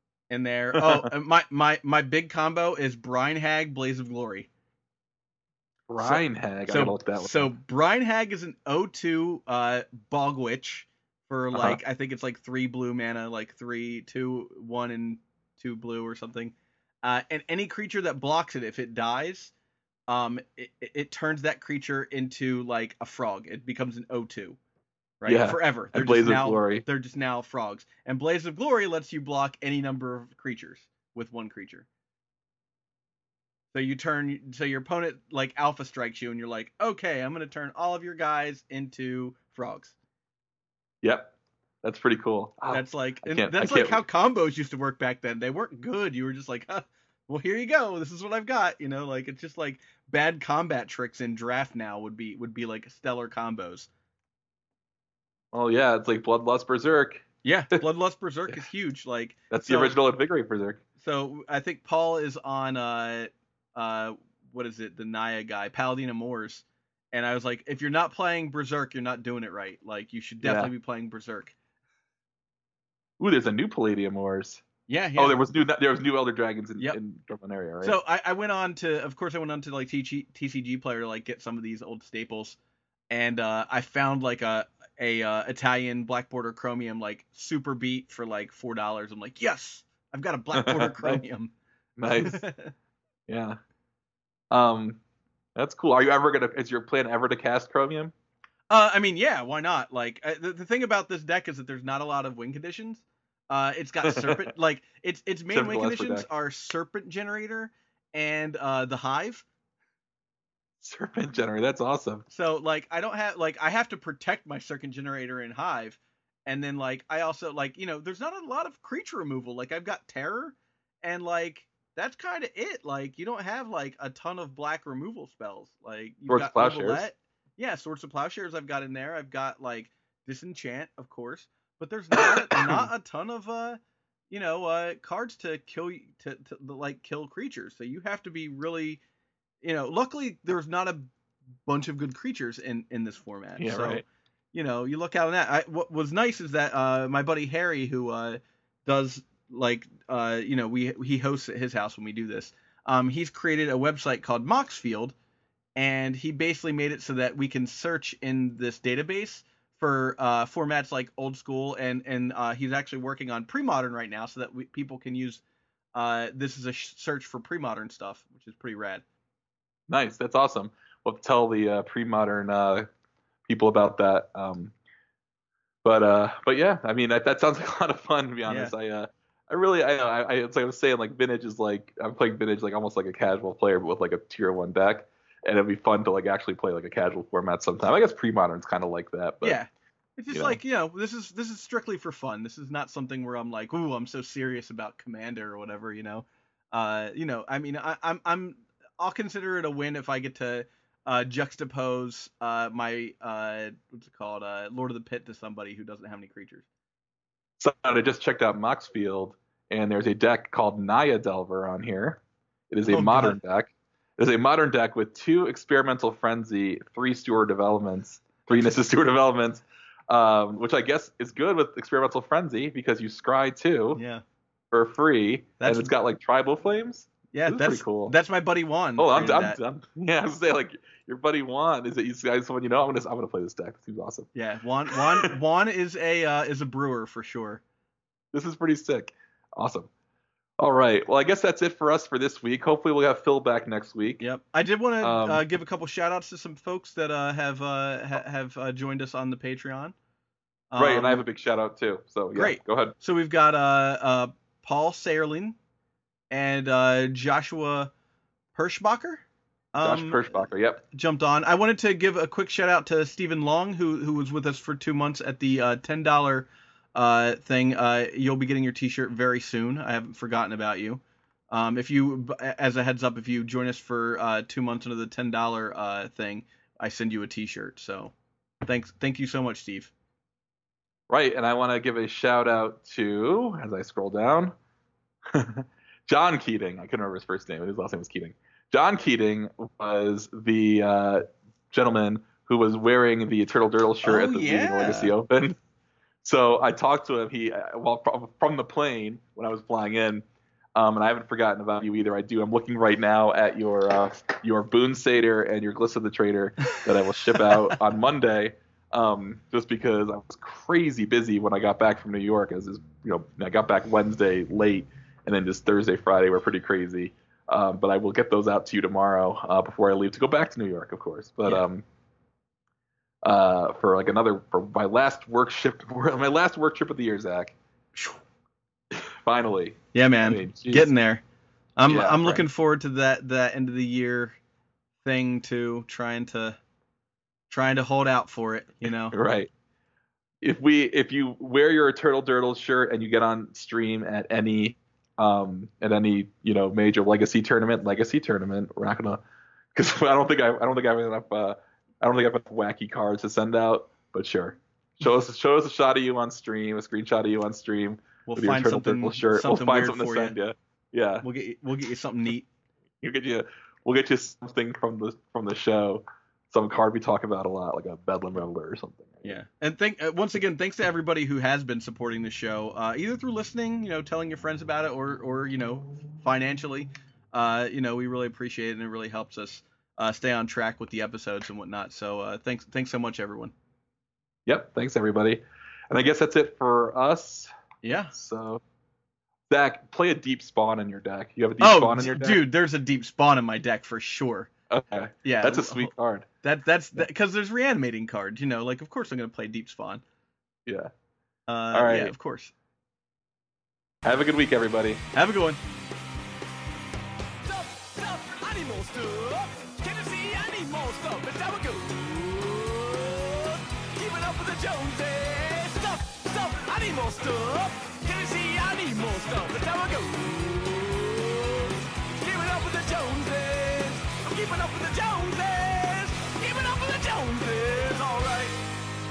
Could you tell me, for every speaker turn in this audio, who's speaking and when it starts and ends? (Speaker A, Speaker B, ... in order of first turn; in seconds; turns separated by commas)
Speaker A: 0.3-4.5, Speaker B: 0.8-1.1, Speaker B: 5.9-7.5, Speaker A: 6.0-19.5, Speaker B: 11.5-11.8, Speaker A: 20.1-24.6, Speaker A: 25.2-31.9, Speaker B: 25.3-26.9, Speaker A: 33.7-40.0, Speaker B: 41.0-44.0, Speaker A: 42.7-53.9, Speaker B: 55.5-57.8, Speaker A: 57.4-60.0, Speaker B: 59.5-60.8, Speaker A: 61.0-71.6, Speaker B: 70.4-70.7, Speaker B: 73.2-74.6, Speaker A: 74.9-75.4, Speaker B: 75.2-78.0, Speaker A: 77.8-82.6, Speaker A: 83.1-91.5, Speaker B: 90.5-91.2, Speaker B: 92.0-92.4, Speaker A: 92.1-92.7, Speaker B: 93.3-93.6, Speaker B: 94.5-95.0, Speaker B: 95.6-98.1, Speaker A: 98.7-109.5, Speaker B: 104.0-104.5, Speaker B: 105.5-106.3, Speaker B: 110.8-112.3, Speaker A: 112.3-139.0, Speaker B: 126.3-127.0, Speaker B: 132.1-132.8, Speaker A: 139.6-141.1, Speaker A: 141.7-155.2, Speaker B: 143.6-144.1, Speaker A: 155.8-165.4, Speaker A: 165.9-169.0, Speaker B: 169.9-172.9, Speaker B: 173.5-174.7, Speaker B: 175.8-189.6, Speaker A: 178.5-178.7, Speaker A: 189.4-206.7, Speaker B: 190.3-190.6, Speaker B: 207.6-224.0, Speaker A: 212.9-213.4, Speaker A: 223.9-224.2, Speaker B: 224.7-228.2, Speaker A: 225.6-225.9, Speaker A: 227.3-229.6, Speaker B: 229.0-234.3, Speaker A: 234.3-237.6, Speaker B: 234.9-235.3, Speaker B: 238.3-239.9, Speaker B: 240.6-244.2, Speaker A: 244.2-249.9, Speaker B: 245.0-245.4, Speaker A: 250.7-251.2, Speaker B: 250.8-252.9, Speaker A: 252.3-255.6, Speaker A: 256.3-257.9, Speaker A: 258.5-259.2, Speaker A: 259.7-260.2, Speaker B: 259.8-260.8, Speaker A: 260.9-279.9, Speaker B: 281.1-284.5, Speaker B: 285.3-295.6, Speaker A: 294.0-295.1, Speaker B: 296.2-300.2, Speaker B: 300.8-321.9, Speaker B: 323.2-327.6, Speaker B: 328.9-330.9, Speaker A: 329.9-331.2, Speaker A: 331.8-334.4, Speaker B: 331.9-332.5, Speaker A: 335.0-336.6, Speaker A: 337.5-339.2, Speaker B: 339.1-339.5, Speaker B: 340.4-349.2, Speaker B: 349.7-361.2, Speaker A: 358.3-360.4, Speaker A: 361.2-362.5, Speaker B: 363.0-369.4, Speaker A: 369.2-383.5, Speaker B: 384.5-387.5, Speaker A: 387.8-388.1, Speaker B: 388.1-388.6, Speaker B: 389.5-392.4, Speaker A: 391.6-394.5, Speaker B: 394.7-396.3, Speaker A: 395.2-395.9, Speaker A: 396.4-400.0, Speaker B: 400.7-400.9, Speaker A: 401.5-402.5, Speaker B: 401.7-402.1, Speaker B: 404.0-405.0, Speaker A: 405.1-405.6, Speaker C: 407.4-428.6